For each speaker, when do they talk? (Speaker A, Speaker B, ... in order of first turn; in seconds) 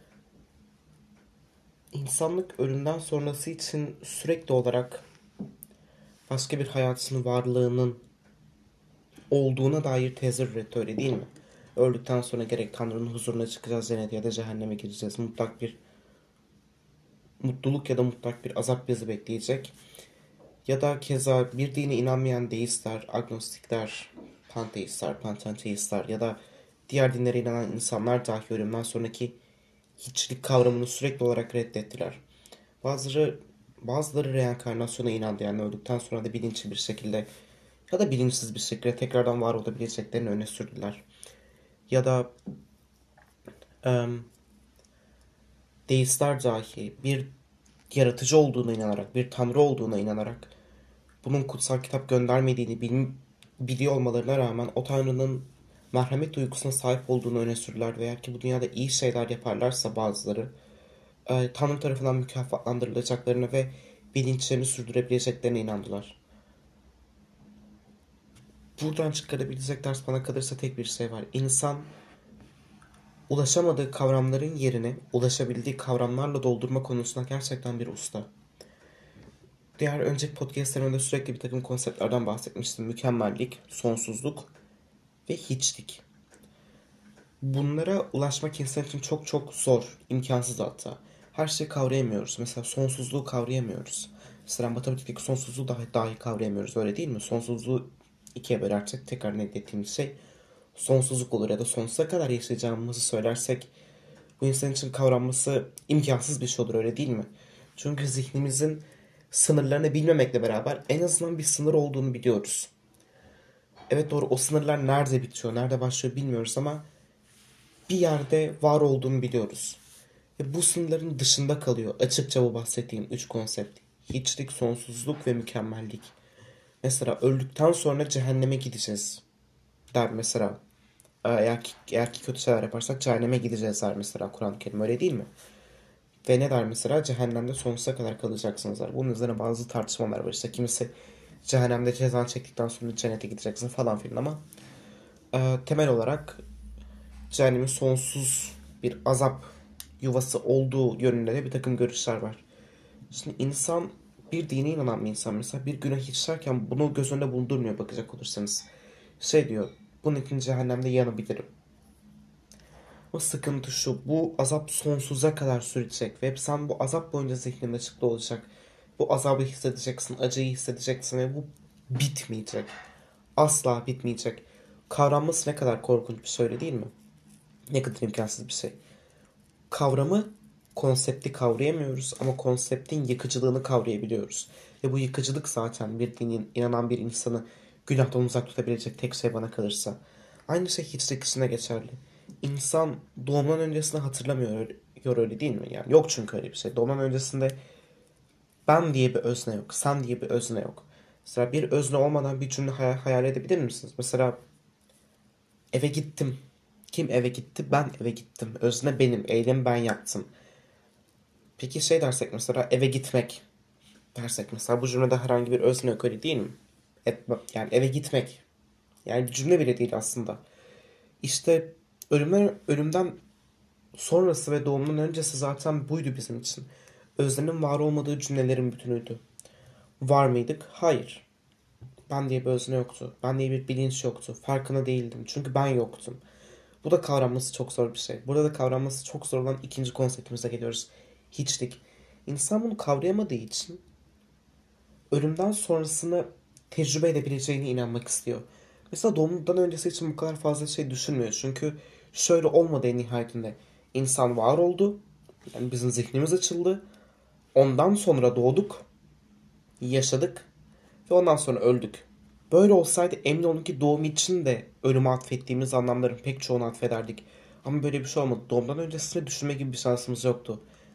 Speaker A: 1.9-5.0, 6.3-8.0, 9.3-15.8, 17.4-19.7, 20.7-29.4, 30.0-32.2, 32.8-37.3, 37.9-41.0, 41.9-42.3, 43.8-44.3, 45.9-47.3, 47.9-50.5, 51.2-60.5, 61.2-66.2, 68.8-71.9, 73.3-78.3, 79.8-84.5, 85.3-86.0, 87.4-100.2, 100.8-103.7, 104.4-112.7, 113.9-116.8, 117.9-119.8, 120.4-126.1, 126.8-129.2, 129.9-130.6, 131.2-135.3, 136.2-140.9, 141.4-144.4, 145.3-146.4, 147.3-152.4, 153.1-158.7, 159.2-161.5, 163.1-172.7, 173.4-176.9, 177.7-178.8, 179.7-197.6, 198.7-204.4, 205.7-210.3, 211.6-213.4, 214.2-218.4, 219.1-220.4, 221.2-223.2, 223.9-229.2, 230.0-231.3, 232.1-236.2, 236.8-243.8, 245.1-255.0, 255.5-256.8, 257.5-258.9, 259.8-260.5, 261.1-270.6